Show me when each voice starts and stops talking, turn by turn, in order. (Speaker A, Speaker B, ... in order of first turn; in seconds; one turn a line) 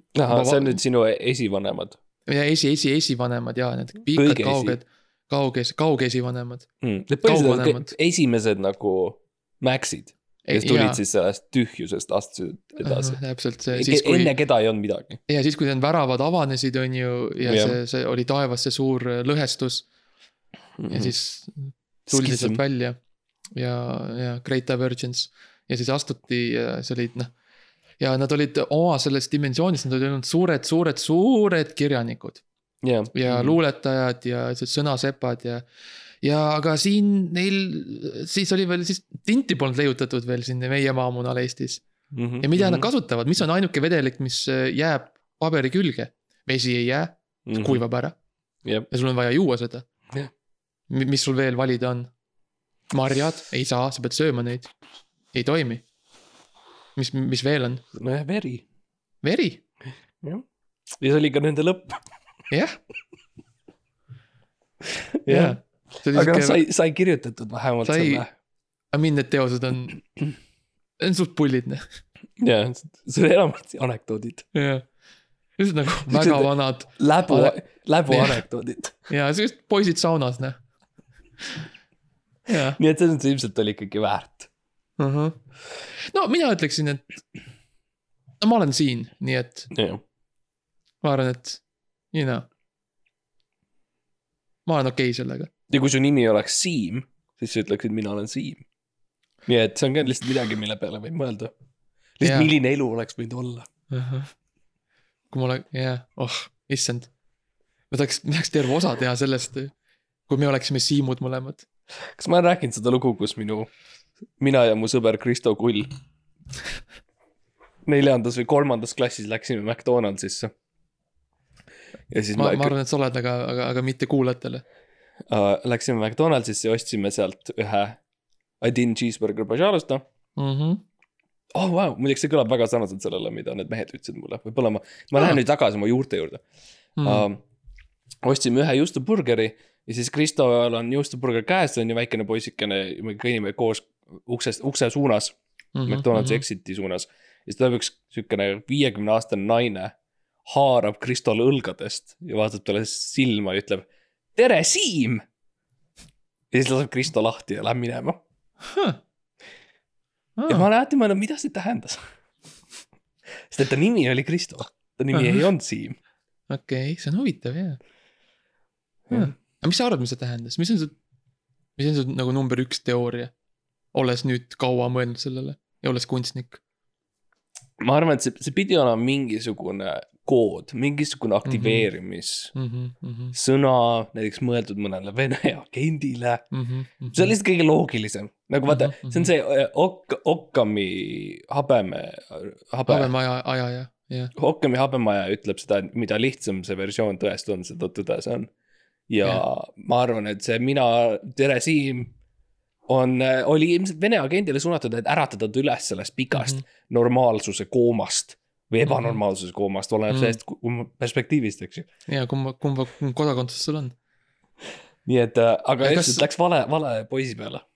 Speaker A: 0.1-2.0
Speaker B: 0.3-0.8
Speaker B: 2.3-6.7
Speaker A: 4.1-4.8
Speaker A: 6.8-13.2
Speaker B: 7.2-8.0
Speaker B: 10.4-11.0
Speaker B: 12.8-14.3
Speaker A: 13.7-15.2
Speaker B: 15.3-19.9
Speaker A: 17.4-17.8
Speaker A: 20.8-21.1
Speaker B: 20.9-23.0
Speaker A: 22.1-22.6
Speaker B: 23.6-27.3
Speaker B: 28.0-32.4
Speaker A: 32.8-33.6
Speaker B: 33.1-35.7
Speaker B: 36.2-41.8
Speaker A: 42.1-42.9
Speaker B: 42.4-48.1
Speaker A: 47.5-47.8
Speaker B: 48.9-49.9
Speaker B: 50.9-52.1
Speaker B: 52.9-54.7
Speaker B: 55.3-55.8
Speaker B: 57.0-57.8
Speaker A: 57.9-58.6
Speaker B: 59.2-59.6
Speaker A: 60.2-62.0
Speaker B: 62.5-62.8
Speaker A: 65.2-65.6
Speaker B: 65.3-66.6
Speaker A: 66.1-68.3
Speaker B: 67.8-68.2
Speaker B: 68.9-70.0
Speaker B: 71.0-71.9
Speaker A: 72.4-74.5
Speaker B: 74.5-74.8
Speaker B: 75.6-77.6
Speaker A: 76.1-79.0
Speaker B: 78.1-78.4
Speaker B: 79.1-80.6
Speaker B: 82.5-82.8
Speaker A: 82.6-84.5
Speaker B: 85.0-85.4
Speaker B: 86.0-87.0
Speaker B: 88.4-89.7
Speaker A: 89.7-90.0
Speaker B: 91.0-91.6
Speaker B: 92.1-92.5
Speaker B: 94.7-95.5
Speaker A: 95.7-98.6
Speaker A: 99.5-101.5
Speaker A: 102.2-103.7
Speaker B: 102.2-102.5
Speaker B: 103.9-104.3
Speaker B: 105.3-107.1
Speaker B: 107.9-109.7
Speaker B: 110.3-111.7
Speaker A: 112.0-113.7
Speaker A: 114.4-115.9
Speaker A: 117.8-120.5
Speaker A: 122.1-122.7
Speaker B: 122.4-124.6
Speaker A: 125.3-128.0
Speaker A: 128.6-130.0
Speaker B: 130.4-130.8
Speaker A: 131.5-136.4
Speaker B: 137.0-137.2
Speaker A: 137.0-137.4
Speaker A: 138.2-145.3
Speaker B: 145.8-146.4
Speaker A: 145.9-155.2
Speaker A: 156.5-158.2
Speaker B: 158.6-159.0
Speaker B: 160.4-160.7
Speaker A: 160.5-162.0
Speaker A: 163.5-166.0
Speaker B: 165.1-165.5
Speaker B: 166.5-167.8
Speaker B: 169.1-170.9
Speaker B: 171.8-173.3
Speaker B: 173.9-176.6
Speaker A: 177.8-182.5
Speaker B: 181.4-181.9
Speaker B: 182.5-183.3
Speaker A: 183.3-186.4
Speaker B: 186.5-187.3
Speaker A: 187.1-193.1
Speaker B: 188.7-189.3
Speaker B: 192.9-194.3
Speaker A: 194.4-198.5
Speaker A: 199.1-202.1
Speaker A: 202.9-211.9
Speaker B: 206.3-206.6
Speaker B: 208.8-209.2
Speaker B: 210.1-210.4
Speaker B: 212.1-214.0
Speaker A: 215.1-217.6
Speaker B: 215.8-216.3